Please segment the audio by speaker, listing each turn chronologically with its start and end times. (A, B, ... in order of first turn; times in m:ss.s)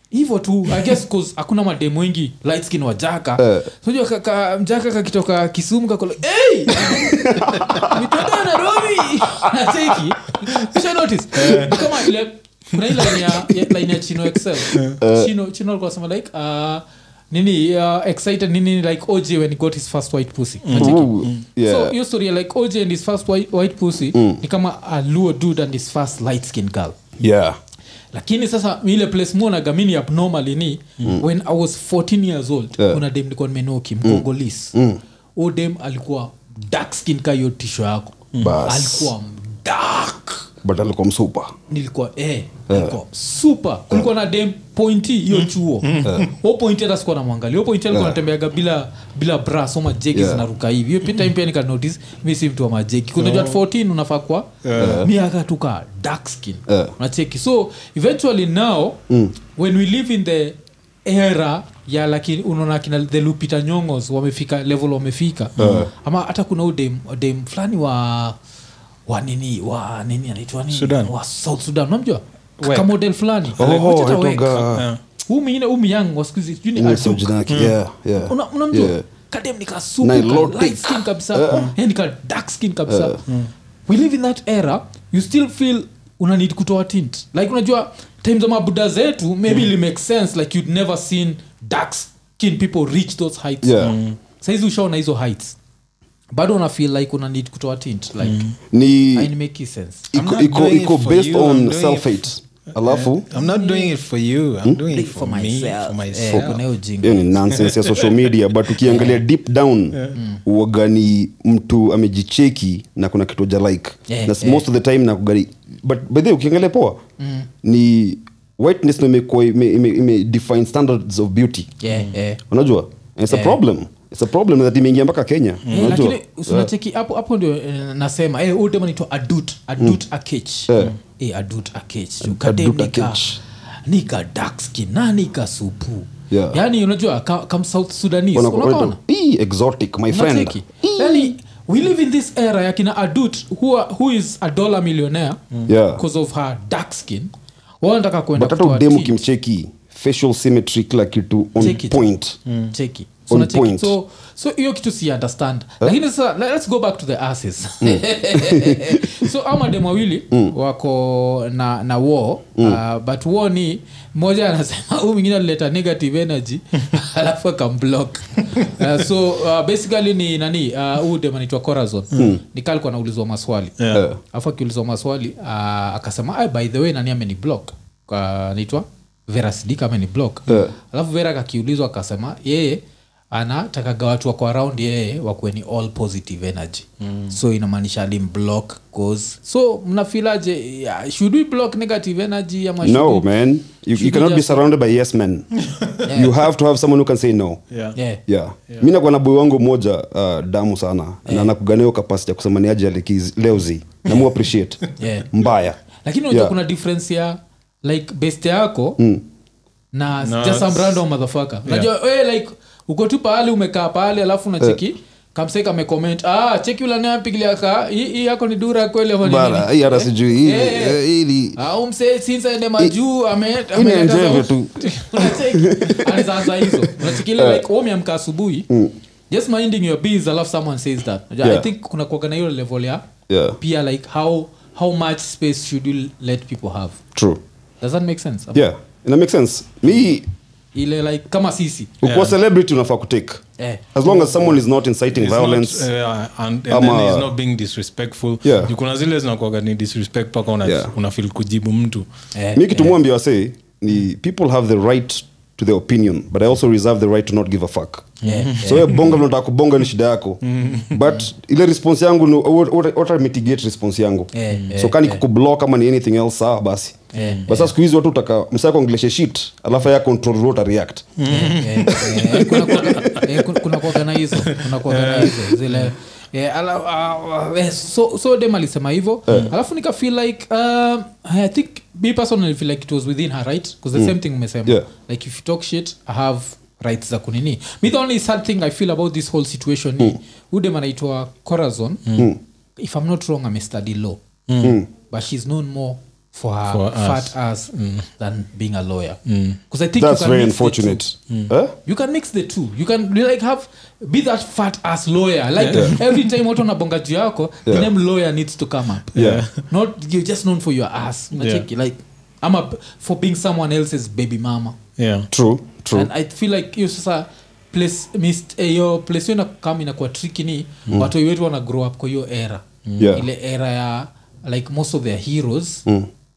0:00.1-0:27.0 A
0:03.4-0:03.7 B
0:06.9-0:08.0 B
0:11.3-0:12.0 C
0:13.0-0:13.2 C
0:14.7-0:15.0 C
0:15.0-0:15.3 B
0:20.6-0:21.4 C
0:20.8-0:22.0 B
0:24.1-0:24.4 B
0:27.2-0:27.6 B
0:28.1-0:34.8 A
0:34.0-0:35.0 B
0:35.4-0:40.5 A
0:38.4-0:39.1 B
0:40.6-0:41.5 B
0:41.7-0:59.0 A
0:42.7-0:43.0 B
0:45.4-0:46.3 C
0:47.9-0:48.2 B
0:50.1-0:50.4 B
0:53.2-0:53.6 C
0:54.6-0:55.0 C
0:54.8-0:55.1 B
0:56.7-0:56.9 B
0:59.1-0:59.3 B
0:59.6-1:08.4 A
1:05.6-1:05.9 C
1:05.6-1:05.9 B
1:09.1-1:14.7 A
1:10.7-1:11.1 C
1:12.6-1:12.9 C
1:13.6-1:13.8 C
1:13.6-1:14.9 B
1:14.7-1:15.0 C
1:15.2-1:17.3 A
1:16.8-1:19.0 B
1:17.5-1:17.8 C
1:18.2-1:23.2 A
1:20.0-1:21.7 B
1:22.9-1:23.2 B
1:23.9-1:35.6 A
1:33.6-1:34.0 B
1:33.8-1:34.2 C
1:36.3-1:38.5 A
1:38.2-1:38.6 C
1:38.7-1:39.3 B
1:39.2-1:40.1 A
1:40.1-1:43.3 B
1:40.2-1:46.6 C
1:43.3-1:43.9 A
1:44.9-1:47.4 A
1:47.0-1:57.0 B
1:47.5-1:48.3 C
1:48.8-1:49.2 A
1:49.9-1:50.2 C
1:50.2-1:50.4 A
1:54.1-1:54.6 A
1:57.2-1:57.5 A
1:57.6-2:01.7 B
2:01.8-2:02.4 A
2:02.5-2:06.7 B
2:03.3-2:03.6 A
2:05.7-2:06.1 C
2:05.7-2:13.2 A
2:10.7-2:11.0 B
2:12.2-2:13.4 B
2:13.9-2:19.0 A
2:16.3-2:16.6 B
2:18.3-2:21.3 B
2:20.1-2:25.4 A
2:25.7-2:26.0 B
2:25.9-2:29.2 A
2:28.4-2:32.4 B
2:31.6-2:32.1 A
2:32.5-2:32.7 C
2:32.7-3:13.3 A
2:33.3-2:34.0 B
2:37.8-2:39.3 B
2:52.2-2:52.4 B
2:53.8-2:54.0 C
2:53.9-2:54.2 B
3:00.5-3:00.7 B
3:07.0-3:07.3 C
3:12.8-3:15.5 B
3:13.9-3:14.7 A
3:15.7-3:16.0 C
3:16.0-3:16.4 A
3:16.1-3:17.6 B
3:17.7-3:18.0 C
3:18.0-3:18.2 A
3:18.3-3:26.5 B
3:21.3-3:21.5 A
3:25.0-3:25.3 A
3:25.9-3:29.0 A
3:29.0-3:29.2 B
3:29.9-3:41.0 A
3:30.2-3:31.0 C
3:39.2-3:41.6 B
3:41.6-3:48.7 A
3:43.7-3:47.6 B
3:49.3-3:53.0 A
3:53.3-3:53.6 B
3:53.6-3:57.0 A
3:57.2-3:57.4 B
3:57.8-3:58.7 A
3:58.6-4:00.3 B
4:00.7-4:01.9 A
4:02.0-4:03.4 B
4:02.0-4:02.4 C
4:03.6-4:04.6 A
4:04.0-4:05.9 B
4:05.1-4:12.1 C
4:06.7-4:07.3 B
4:08.4-4:08.7 B
4:10.6-4:10.9 B
4:12.3-4:13.0 A
4:12.5-4:31.1 B
4:18.2-4:19.0 A
4:18.2-4:19.2 C
4:20.4-4:21.0 C
4:24.3-4:25.2 A
4:27.1-4:27.7 A
4:27.2-4:27.5 C
4:31.2-4:33.3 C
4:31.3-4:52.1 A
4:32.7-4:33.0 B
4:34.3-4:35.9 C
4:52.8-4:54.2 A
4:54.5-4:54.8 C
4:54.6-4:54.9 B
4:55.1-4:59.2 A
4:56.7-4:58.1 C
4:59.3-4:59.6 C
4:59.7-5:01.0 A
5:00.0-5:01.7 B
5:01.9-5:14.8 A
5:05.6-5:06.2 C
5:05.7-5:06.0 B
5:09.1-5:09.6 C
5:09.2-5:09.4 B
5:11.3-5:11.7 C
5:15.0-5:15.3 C
5:15.3-5:16.1 B
5:15.9-5:25.9 A
5:22.9-5:23.2 C
5:23.0-5:23.3 B